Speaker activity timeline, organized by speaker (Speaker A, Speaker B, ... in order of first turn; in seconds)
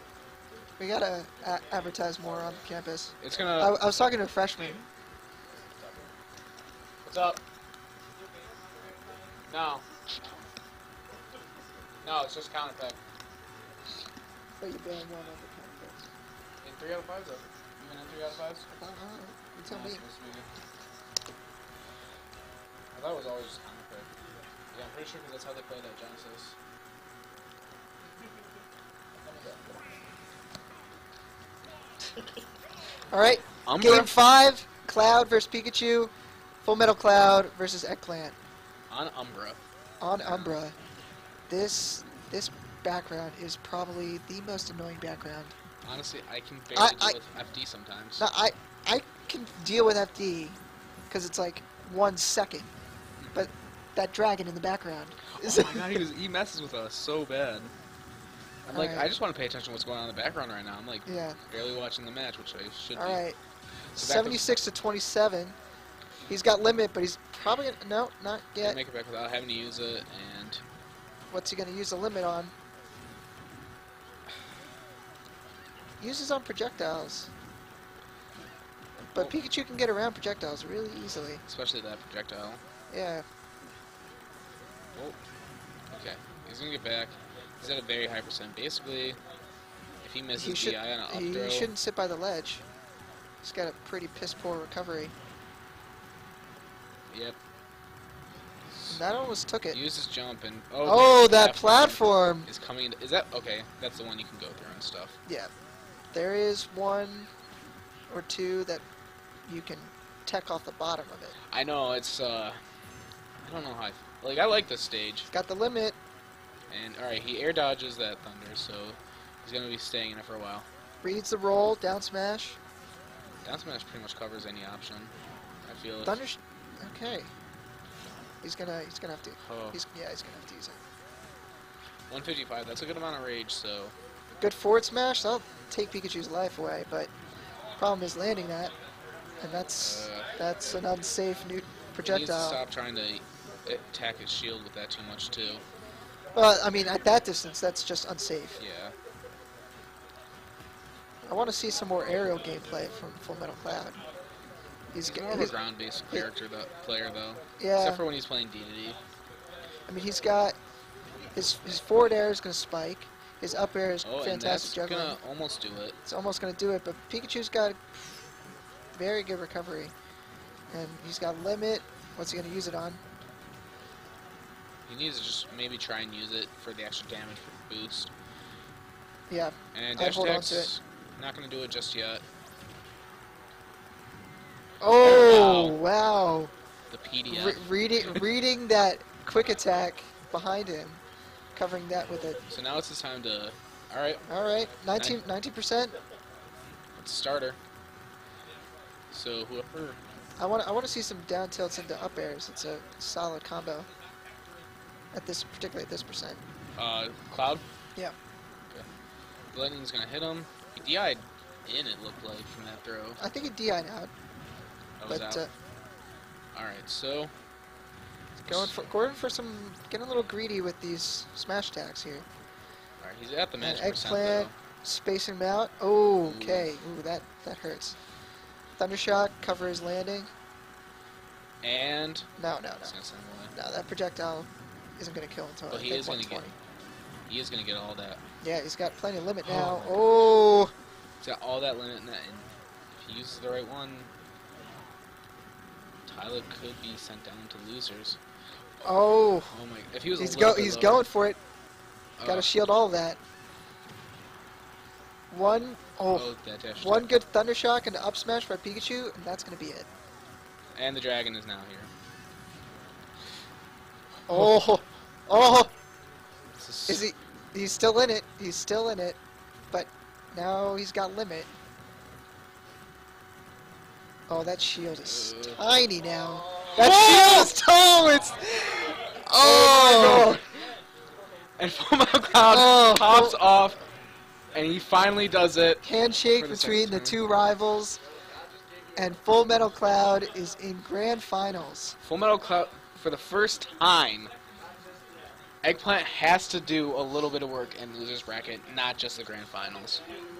Speaker A: 0.8-4.9, 14.6-16.1, 18.7-20.0, 33.1-36.1, 36.6-38.4, 40.0-40.8, 41.5-45.5, 46.8-47.2, 48.2-50.6, 51.1-52.7, 53.3-56.0, 58.7-59.1, 61.1-61.4, 63.0-63.4, 64.0-65.5, 66.3-68.8, 71.3-72.5, 76.0-77.3, 79.1-81.4, 82.9-83.2, 90.4-92.6, 93.4-95.1, 98.9-99.8, 100.8-102.5, 106.1-107.3, 108.1-108.8, 109.5-111.3, 115.3-116.0, 121.0-122.6, 126.0-127.3, 128.4-130.8, 134.4-137.1, 137.8-138.7, 139.4-142.6, 146.3-148.6, 151.2-154.0, 154.9-155.5, 157.6-158.0, 159.9-160.6, 161.4-165.2, 166.1-168.1, 168.9-169.9, 170.7-173.0, 179.3-180.7, 184.8-186.5, 187.3-191.0, 191.6-192.4, 194.3-195.9, 200.4-203.9, 205.1-206.4, 213.2-214.1, 215.1-215.5, 218.4-222.2, 223.6-227.9, 228.8-230.3, 232.4-233.0, 233.5-236.5, 238.4-240.7, 248.8-249.5, 250.2-251.4, 252.2-253.2, 255.3-259.9, 264.3-265.7, 266.9-269.2, 269.7-271.5, 274.3-280.4, 282.4-283.4, 285.8-288.0, 289.0-291.9
Speaker B: 3.2-3.8, 7.0-7.4, 9.5-9.8, 12.0-13.0, 16.6-18.7, 19.7-20.5, 22.9-24.1, 24.7-26.6, 33.2-34.1, 38.9-39.6, 40.2-40.6, 45.8-48.2, 55.3-57.7, 58.7-63.2, 64.0-64.5, 68.6-70.6, 81.5-82.6, 85.9-89.2, 90.0-91.7, 97.1-97.4, 98.7-99.0, 99.7-105.2, 111.5-112.6, 113.4-115.3, 116.7-120.7, 123.4-125.1, 125.7-126.2, 129.4-129.8, 132.1-133.9, 139.8-140.3, 142.0-145.6, 148.6-148.9, 155.0-159.0, 164.0-166.0, 174.9-178.1, 179.7-182.2, 185.0-185.8, 186.9-188.3, 192.5-194.2, 197.0-197.6, 199.1-200.0, 206.8-207.6, 209.5-213.2, 215.0-215.4, 216.6-217.3, 218.5-219.1, 223.0-224.5, 226.2-226.7, 231.6-232.3, 232.8-233.5, 235.7-236.5, 237.3-238.2, 239.4-240.0, 241.2-244.1, 246.1-248.2, 249.5-251.1, 252.2-252.5, 256.1-257.1, 260.8-261.9, 266.6-267.1, 275.1-275.6, 276.7-277.5, 279.4-280.4, 281.6-283.8, 284.5-287.2, 292.0-294.3, 295.6-300.0